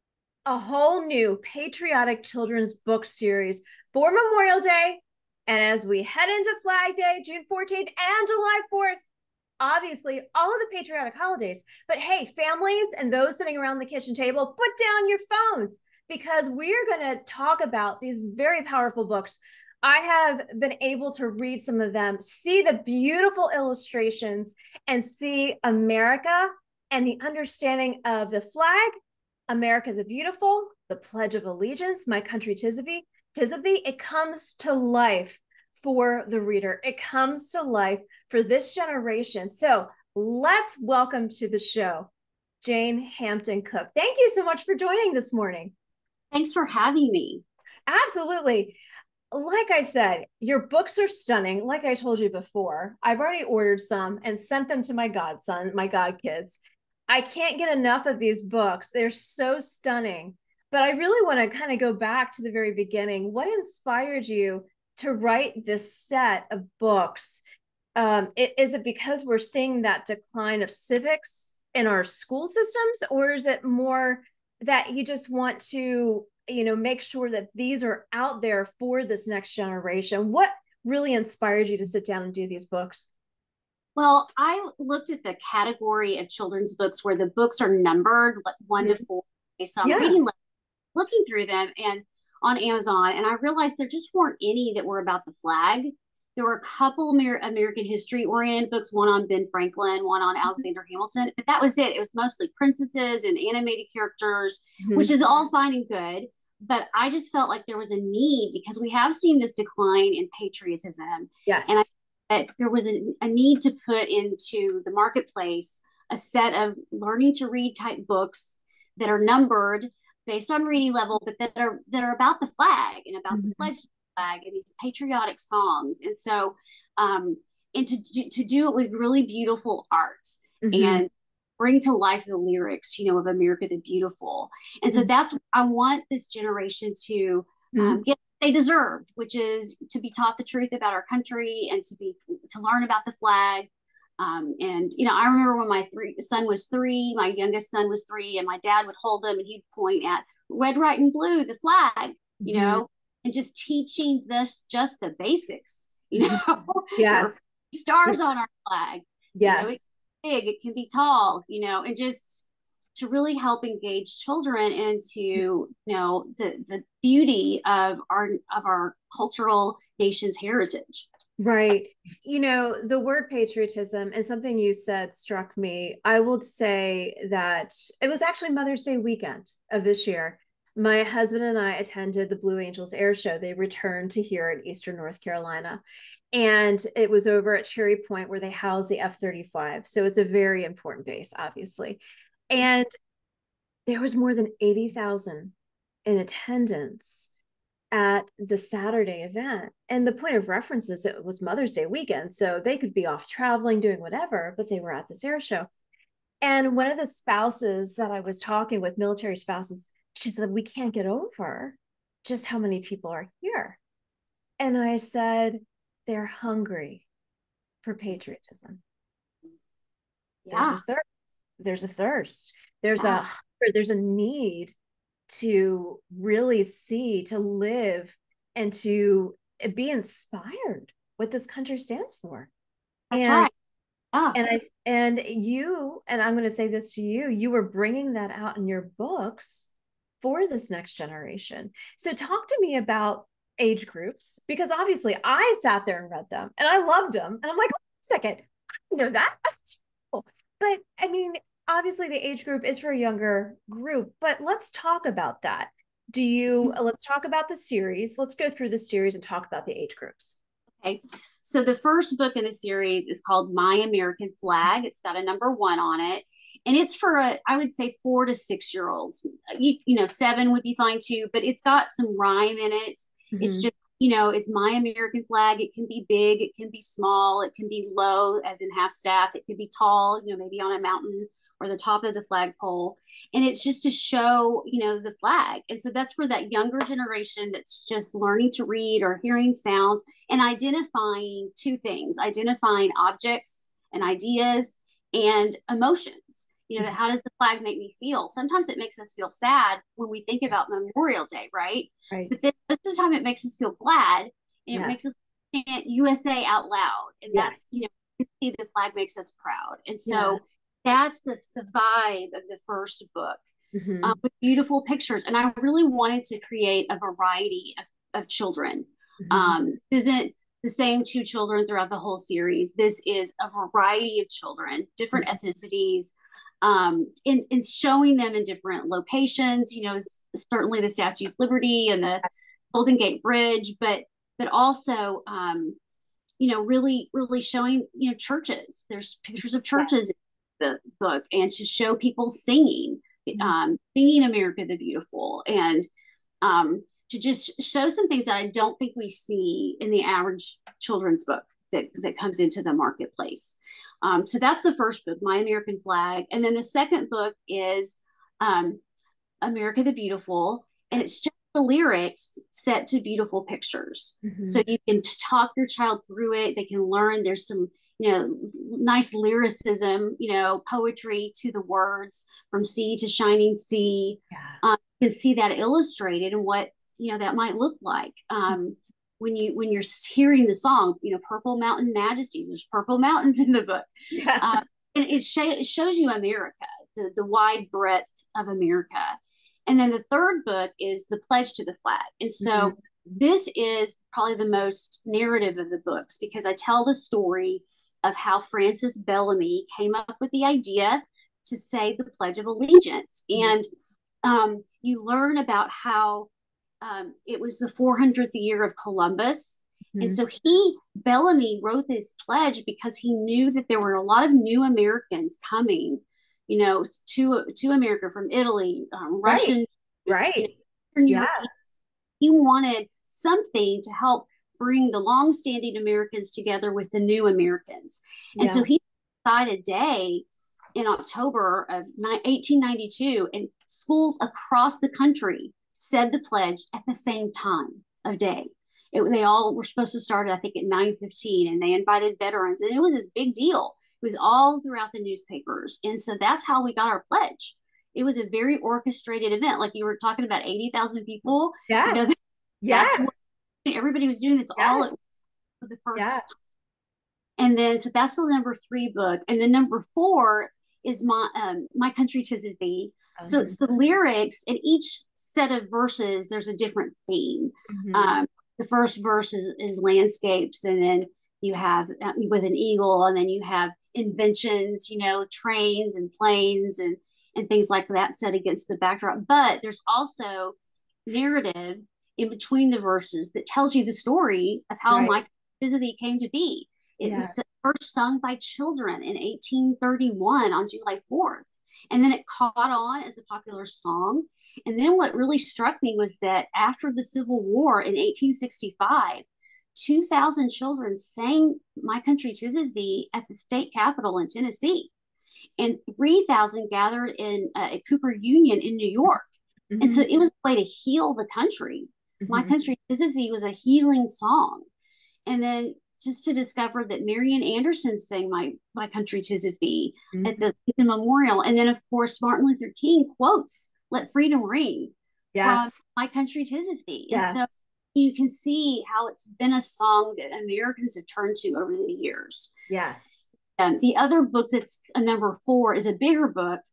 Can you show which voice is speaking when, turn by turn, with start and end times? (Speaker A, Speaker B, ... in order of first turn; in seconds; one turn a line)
Speaker A: 0.5-9.0
Speaker A: 9.6-28.9
Speaker A: 29.5-42.1
Speaker A: 42.6-45.7
Speaker B: 46.3-47.4
Speaker A: 47.9-48.8
Speaker A: 49.3-67.4
Speaker A: 68.0-83.1
Speaker B: 84.0-90.3
Speaker A: 89.8-90.2
Speaker B: 90.9-171.1
Speaker A: 104.8-105.1
Speaker A: 111.5-111.9
Speaker A: 123.3-123.7
Speaker A: 130.6-131.0
Speaker A: 137.7-138.0
Speaker A: 152.4-152.8
Speaker A: 156.9-157.3
Speaker A: 159.3-159.8
Speaker A: 171.4-192.9
Speaker A: 193.8-195.5
Speaker A: 196.1-197.3
Speaker A: 197.9-205.7
Speaker A: 206.4-213.8
Speaker A: 214.6-217.1
Speaker A: 217.8-218.8
Speaker B: 220.4-220.8
Speaker A: 220.5-221.0
Speaker A: 221.6-224.7
Speaker B: 223.0-223.3
Speaker A: 225.3-232.5
Speaker B: 233.1-233.5
Speaker A: 233.1-233.5
Speaker A: 234.3-260.4
Speaker B: 260.8-313.4
Speaker A: 273.3-273.7
Speaker A: 304.7-305.0
Speaker A: 307.3-307.6
Speaker A: 310.1-310.4
Speaker A: 313.7-314.2
Speaker B: 314.0-335.8
Speaker A: 319.2-319.6
Speaker B: 336.4-345.9
Speaker B: 346.4-358.8
Speaker B: 359.4-403.7
Speaker A: 364.2-364.6
Speaker A: 374.3-374.6
Speaker A: 384.1-384.6
Speaker A: 392.4-392.7
Speaker B: 404.2-406.3
Speaker B: 406.8-455.0
Speaker A: 409.9-410.2
Speaker A: 419.2-420.5
Speaker A: 421.1-421.5
Speaker A: 428.4-428.7
Speaker A: 451.7-453.1
Speaker A: 454.6-454.9
Speaker B: 455.6-456.4
Speaker A: 455.9-456.2
Speaker B: 457.4-480.6
Speaker A: 463.2-463.6
Speaker A: 467.7-468.2
Speaker B: 481.1-504.9
Speaker A: 484.9-485.2
Speaker A: 487.0-487.4
Speaker B: 505.6-514.6
Speaker A: 509.7-510.1
Speaker A: 512.2-512.5
Speaker B: 515.3-532.5
Speaker A: 520.1-520.4
Speaker A: 525.3-525.7
Speaker A: 527.1-527.5
Speaker A: 532.7-533.2
Speaker B: 533.6-536.6